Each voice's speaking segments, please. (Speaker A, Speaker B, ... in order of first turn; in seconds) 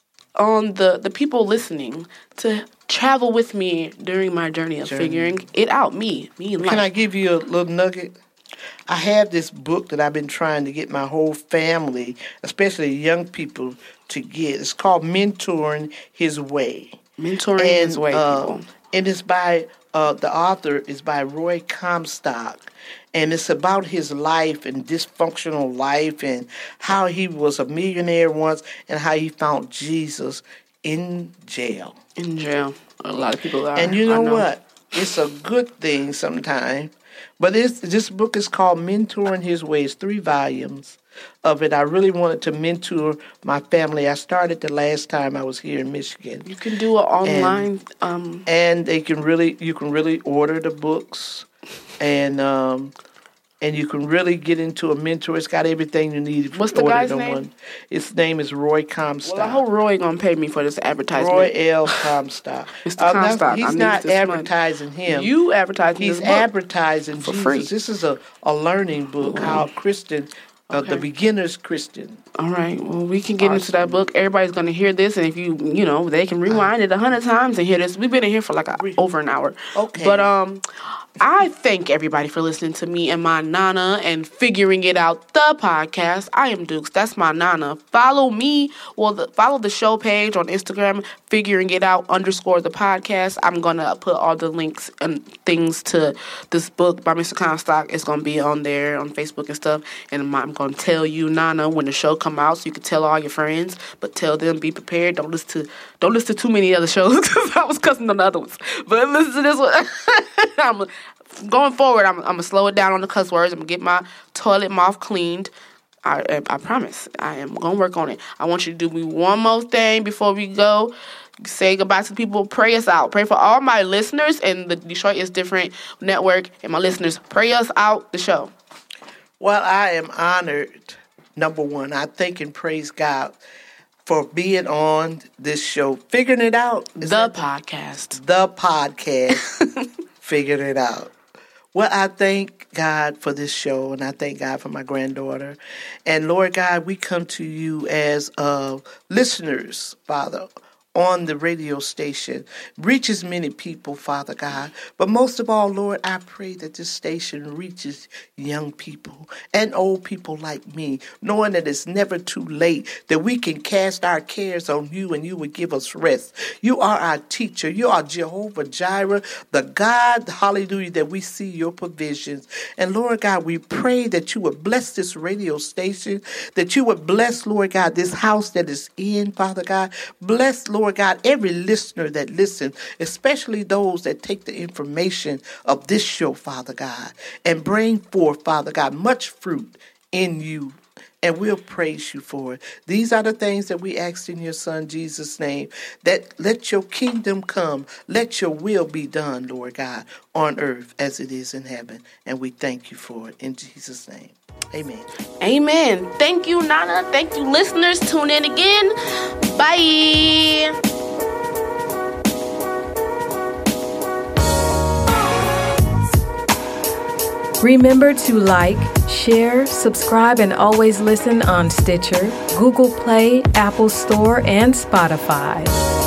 Speaker A: 0.3-6.8, 17.2-18.7, 32.2-34.5, 46.4-48.5, 56.5-57.4, 59.2-62.0, 62.8-64.5, 65.1-66.5, 67.2-67.7, 69.2-69.7, 70.7-71.0, 72.4-80.6, 81.2-115.5, 116.0-128.5, 137.0-138.2, 139.3-139.8, 205.4-210.7
Speaker B: 4.8-5.4, 6.6-8.1, 8.9-17.0, 17.6-31.9, 33.7-46.5, 47.2-47.7, 48.5-51.5, 52.0-52.9, 53.6-59.6, 61.1-65.3, 66.0-72.2, 73.4-74.0, 79.7-80.3, 129.4-133.4, 134.1-137.5, 138.1-139.4, 140.2-141.1, 141.7-205.1
Speaker C: 217.6-225.8